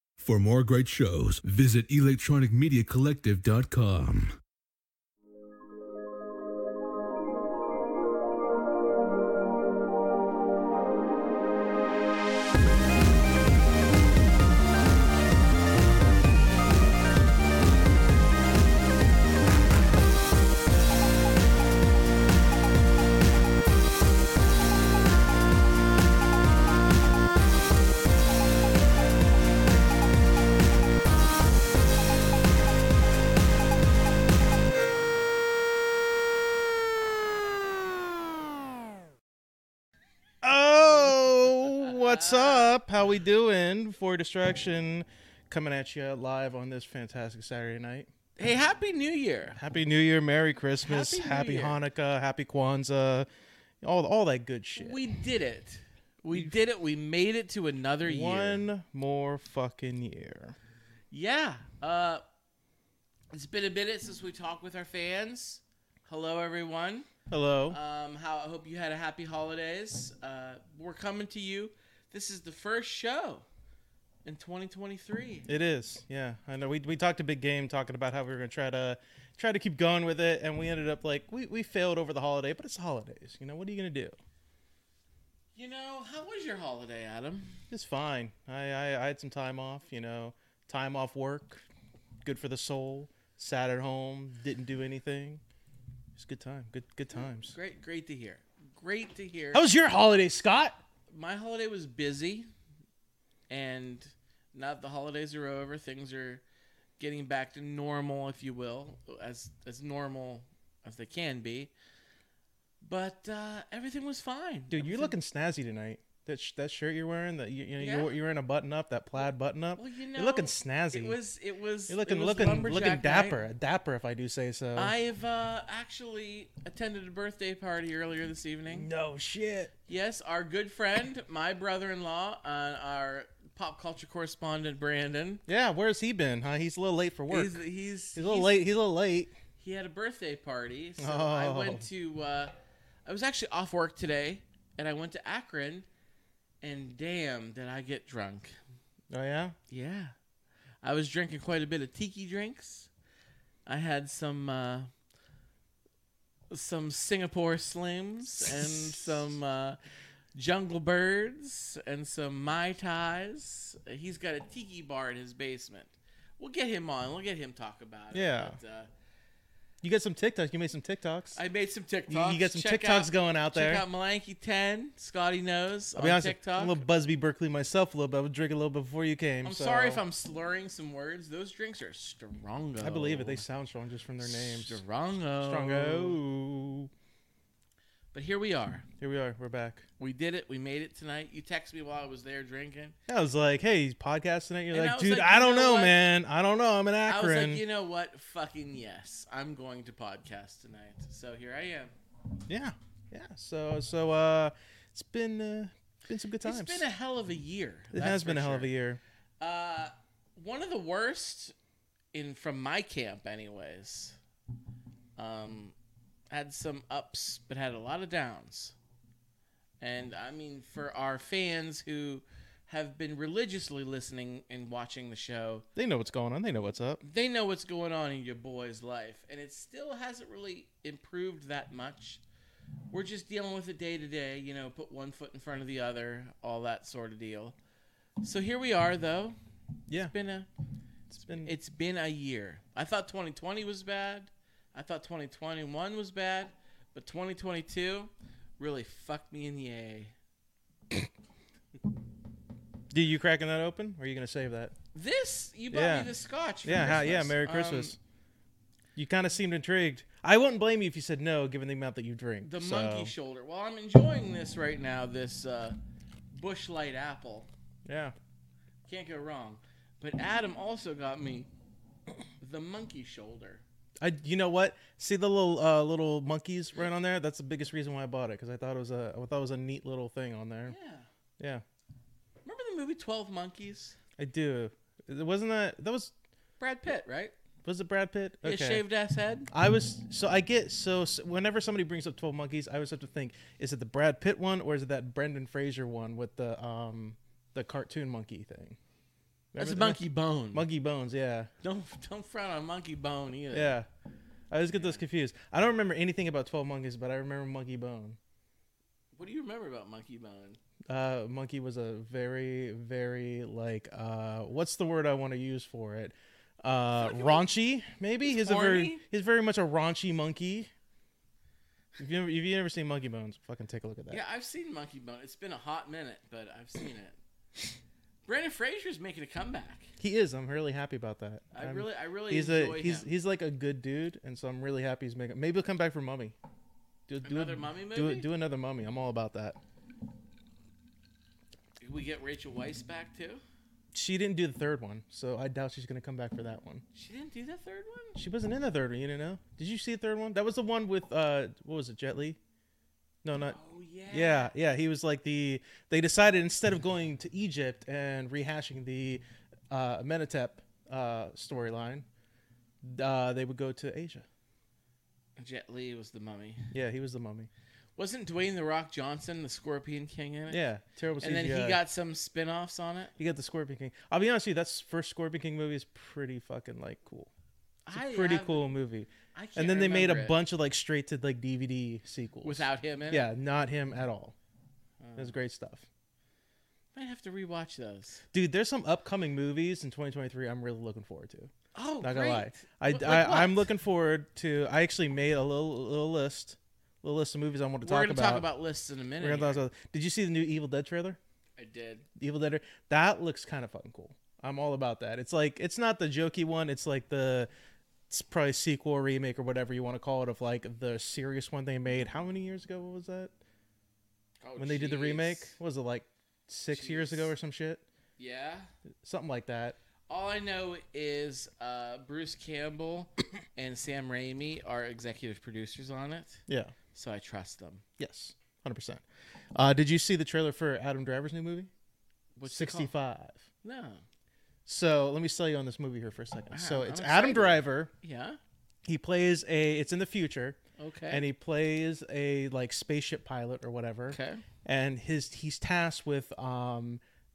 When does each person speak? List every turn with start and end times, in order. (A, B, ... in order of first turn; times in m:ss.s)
0:00.2-0:04.4 A
0:40.4-0:48.1 B
0:42.1-0:42.7 C
0:48.4-0:49.6 C
0:49.6-0:53.3 B
0:50.8-0:51.8 C
0:53.8-0:55.0 B
0:54.8-0:58.6 C
0:58.0-1:00.6 B
1:01.1-1:02.2 C
1:03.3-1:07.1 C
1:07.3-1:07.8 B
1:07.7-1:13.5 C
1:14.3-1:15.5 C
1:15.5-1:24.2 B
1:25.6-1:27.6 C
1:27.7-1:31.6 B
1:32.2-1:35.4 B
1:36.2-1:37.6 B
1:37.4-1:39.6 C
1:39.5-1:40.8 B
1:41.1-1:42.5 C
1:43.5-1:46.4 C
1:47.0-1:51.7 C
1:52.8-1:55.1 C
1:54.7-2:01.2 B
1:57.8-1:58.1 C
1:59.8-2:03.5 C
2:01.9-2:04.9 B
2:04.8-2:08.9 C
2:08.7-2:09.7 B
2:09.9-2:15.4 C
2:15.5-2:17.6 B
2:17.3-2:18.6 C
2:18.2-2:19.3 B
2:19.6-2:22.5 C
2:21.0-2:21.8 B
2:23.1-2:25.9 C
2:26.6-2:28.6 C
2:29.1-2:29.6 B
2:29.7-2:30.1 C
2:30.8-2:32.9 C
2:33.7-2:34.9 C
2:36.5-2:39.8 C
2:38.4-2:39.2 B
2:40.4-2:48.9 C
2:48.1-2:48.6 B
2:49.8-2:51.4 B
2:51.4-2:56.8 C
2:52.1-2:53.8 B
2:56.0-3:00.0 B
2:59.4-3:03.4 C
3:02.8-3:04.8 B
3:04.2-3:06.2 C
3:05.4-3:06.9 B
3:08.1-3:08.9 C
3:09.0-3:09.8 B
3:10.0-3:13.0 C
3:13.1-3:17.6 B
3:14.7-3:16.0 C
3:17.1-3:21.9 C
3:22.5-3:26.8 B
3:26.4-3:28.7 C
3:27.9-3:29.0 B
3:29.4-3:31.6 C
3:32.1-3:34.2 C
3:35.2-3:35.7 C
3:36.3-3:38.8 C
3:39.8-3:45.7 C
3:45.8-3:47.0 B
3:47.0-3:52.2 C
3:52.9-3:57.6 C
3:58.2-3:59.4 C
3:59.9-4:00.1 B
4:00.0-4:00.5 C
4:01.1-4:01.5 B
4:01.2-4:10.1 C
4:12.9-4:14.8 B
4:14.9-4:18.0 C
4:15.7-4:16.1 B
4:16.6-4:18.0 B
4:19.0-4:23.1 B
4:22.4-4:25.8 C
4:26.3-4:27.5 C
4:27.9-4:28.2 B
4:28.9-4:31.5 C
4:32.4-4:33.6 C
4:34.0-4:40.8 B
4:40.7-4:41.1 C
4:41.4-4:41.6 B
4:42.4-4:44.0 C
4:44.2-4:46.1 B
4:46.6-4:47.3 C
4:47.6-4:48.8 B
4:48.4-4:49.5 C
4:49.5-4:58.8 B
4:59.5-5:01.5 B
4:59.6-5:00.6 C
5:01.6-5:03.8 C
5:03.5-5:03.9 B
5:04.5-5:08.2 B
5:04.7-5:05.0 C
5:09.2-5:10.6 C
5:10.9-5:20.7 B
5:17.0-5:17.4 C
5:18.2-5:19.0 C
5:22.0-5:24.2 B
5:24.1-5:27.2 C
5:28.3-5:29.9 C
5:30.0-5:36.4 B
5:31.5-5:33.1 C
5:37.1-5:39.6 B
5:37.2-5:38.3 C
5:41.8-5:43.4 C
5:43.9-5:46.8 B
5:46.9-5:48.2 C
5:48.2-5:52.4 B
5:53.2-5:53.6 B
5:53.4-5:54.5 C
5:54.1-6:02.1 B
6:02.8-6:04.3 B
6:05.4-6:06.7 C
6:06.7-6:07.5 B
6:08.0-6:10.6 C
6:10.5-6:11.8 B
6:11.2-6:13.1 C
6:13.2-6:17.3 B
6:17.9-6:18.7 C
6:17.9-6:24.4 B
6:19.4-6:20.4 C
6:22.4-6:23.3 C
6:25.0-6:25.4 C
6:25.2-6:25.9 B
6:26.9-6:28.2 C
6:28.3-6:38.5 B
6:31.8-6:33.7 C
6:37.8-6:39.6 C
6:39.2-6:41.2 B
6:41.6-6:42.1 C
6:42.2-6:47.5 B
6:48.1-6:53.3 B
6:54.4-6:55.6 C
6:54.6-6:57.8 B
6:56.7-6:57.3 C
6:58.2-6:58.7 C
6:59.0-6:59.8 B
7:00.1-7:06.4 C
7:06.5-7:06.7 B
7:06.9-7:07.8 C
7:08.0-7:09.0 B
7:09.6-7:11.7 B
7:12.4-7:12.9 C
7:12.5-7:13.4 B
7:13.6-7:14.0 C
7:14.7-7:17.9 B
7:16.5-7:18.4 C
7:18.8-7:20.6 B
7:20.8-7:21.3 C
7:21.1-7:27.0 B
7:24.1-7:24.4 C